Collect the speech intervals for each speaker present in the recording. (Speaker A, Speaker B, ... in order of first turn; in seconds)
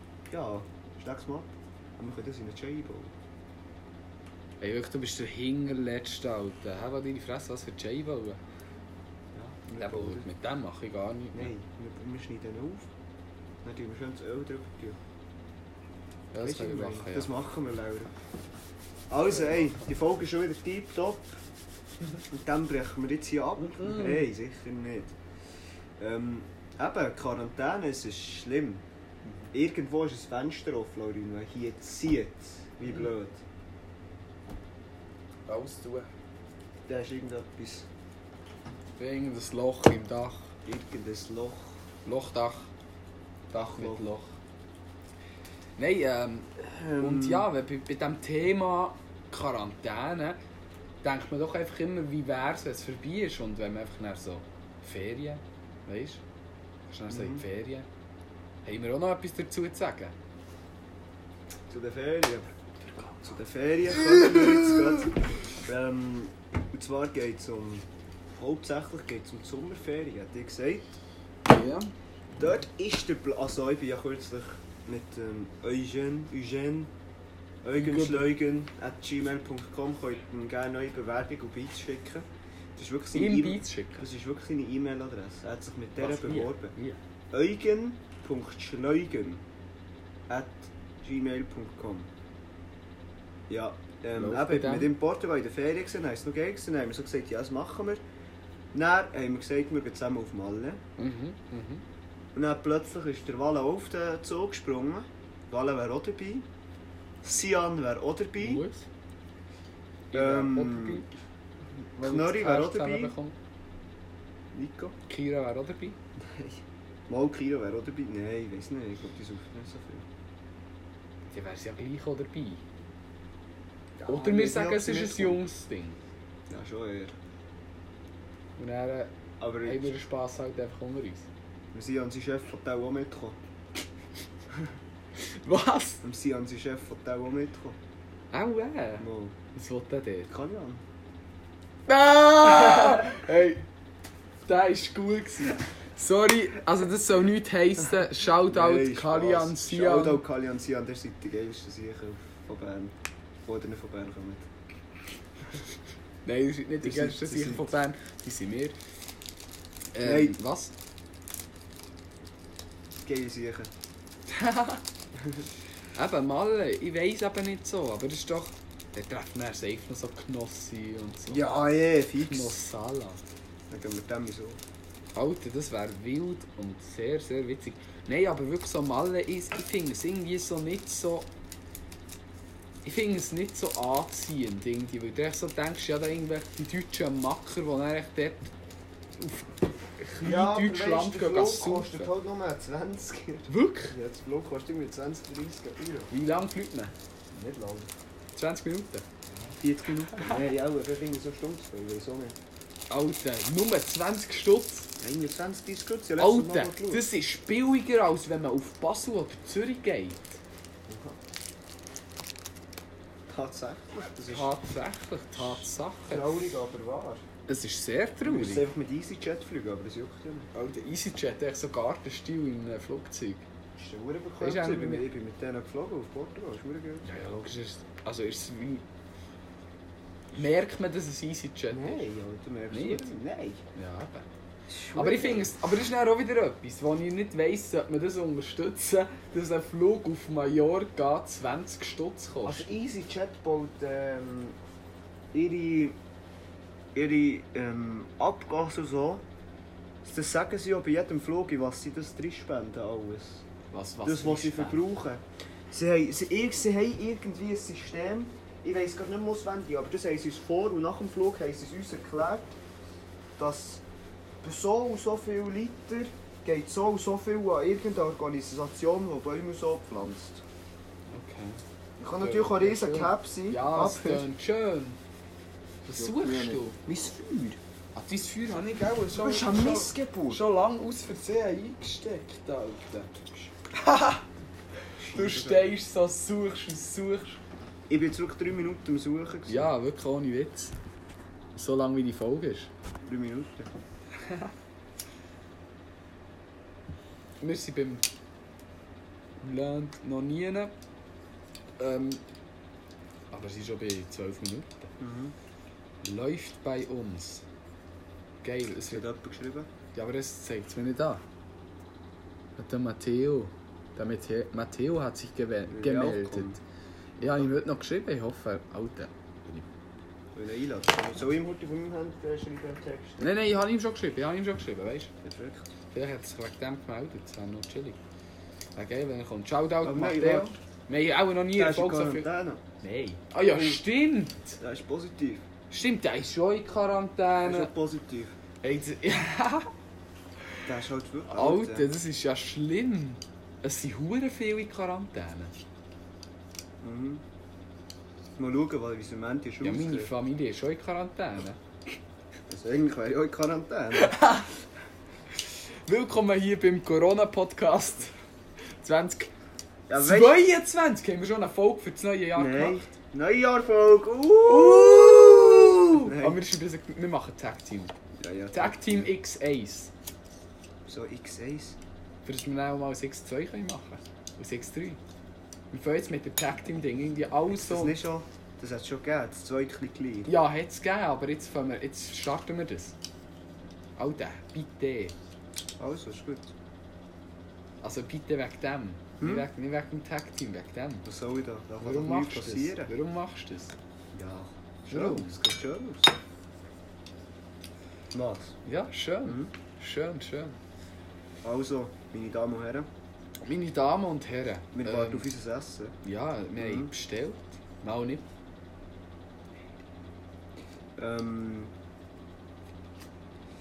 Speaker A: 0.3-3.1, 9.3-10.3, 11.3-12.9, 13.6-15.0, 16.4-18.1, 19.1-21.4, 22.3-25.1, 26.0-28.8, 29.5-33.4, 36.9-37.9, 40.6-41.8, 43.7-44.1, 46.6-47.5, 57.1-57.4, 61.7-62.5, 63.2-67.9, 68.4-71.0, 72.4-76.9, 77.6-86.8, 87.3-89.4, 90.3-92.1, 93.5-98.0, 98.7-100.8, 102.3-106.5, 107.2-108.7, 110.1-111.0, 112.0-113.1, 114.5-115.0, 116.2-120.1, 124.0-125.4, 126.5-127.2, 129.4-129.9, 131.7-133.4, 136.0-137.8, 139.0-139.3, 140.3-140.8, 148.4-152.9, 153.5-154.5, 156.8-157.7, 160.0-160.4, 163.0-163.7, 171.3-172.7, 173.7-174.6, 190.2-196.1, 197.3-197.9, 199.4-202.4, 205.0-207.1, 210.9-211.2, 213.3-214.5, 215.4-217.2, 218.2-220.5, 223.8-227.3, 231.7-233.6, 234.7-235.6, 242.4-244.6, 245.3-246.0, 246.9-249.2, 250.0-253.5, 254.1-262.5, 263.4-263.8, 264.4-270.4, 272.0-274.3, 275.9-277.6, 279.1-280.4, 285.0-285.8, 287.9-289.7, 293.1-293.7, 305.0-305.4, 308.9-309.7, 315.7-316.6, 317.2-317.5, 320.4-323.3, 325.2-325.7, 329.8-330.6, 331.5-332.6, 333.4-333.8, 334.6-335.5, 337.4-338.4, 340.6-341.9, 346.8-347.2, 348.4-350.1, 352.5-354.2, 359.9-360.5, 362.4-366.4, 368.2-369.1, 370.9-371.8, 377.6-380.3, 385.8-386.5, 389.2-389.5, 391.1-392.9, 394.1-396.2, 398.1-398.6, 399.2-399.5, 401.4-402.9, 404.7-406.0, 406.6-406.9, 411.0-411.7
Speaker B: 4.6-8.4, 9.7-11.5, 16.3-17.3, 23.6-24.3, 29.2-29.5, 35.5-36.1, 39.0-40.5, 42.0-42.7, 43.5-44.4, 45.8-50.4, 51.0-56.2, 56.9-57.9, 58.6-60.1, 62.8-65.2, 71.5-71.9, 77.7-78.3, 83.1-84.0, 86.0-87.0, 94.2-94.9, 101.0-101.8, 108.4-108.9, 110.1-111.1, 112.0-113.4, 115.1-116.0, 121.3-122.6, 124.1-126.0, 128.6-129.1, 129.6-131.3, 135.2-136.0, 138.3-140.3, 141.9-143.6, 144.5-150.2, 156.2-158.8, 159.9-160.7, 164.3-164.8, 166.0-171.5, 172.2-173.3, 175.2-181.3, 182.8-188.5, 189.2-192.1, 193.5-193.9, 196.1-196.9, 198.3-199.1, 200.1-200.4, 202.9-204.9, 206.2-210.4, 214.3-216.5, 217.5-218.7, 220.5-223.5, 224.4-225.1, 227.1-228.8, 230.3-232.1, 232.7-233.2, 233.8-234.3, 234.9-242.7, 253.7-254.8, 271.1-271.6, 272.2-275.0, 275.9-276.8, 277.9-284.2, 285.0-287.4, 289.5-290.7, 291.5-292.7, 297.4-298.0, 299.4-300.7, 301.8-302.2, 303.3-304.9, 306.0-307.4, 308.4-309.1, 309.9-311.2, 312.6-316.6, 317.2-319.7, 323.2-325.1, 325.9-328.0, 328.8-332.3, 332.8-334.6, 335.7-337.7, 338.6-339.7, 341.3-345.6, 349.6-351.6, 354.0-354.5, 355.9-358.1, 358.8-359.3, 359.9-362.8, 364.4-367.9, 368.5-369.9, 372.2-375.0, 375.7-378.0, 380.3-382.9, 384.0-385.1, 387.8-391.1, 391.8-393.8, 394.9-395.4, 398.6-400.6, 403.4-405.3, 406.0-408.3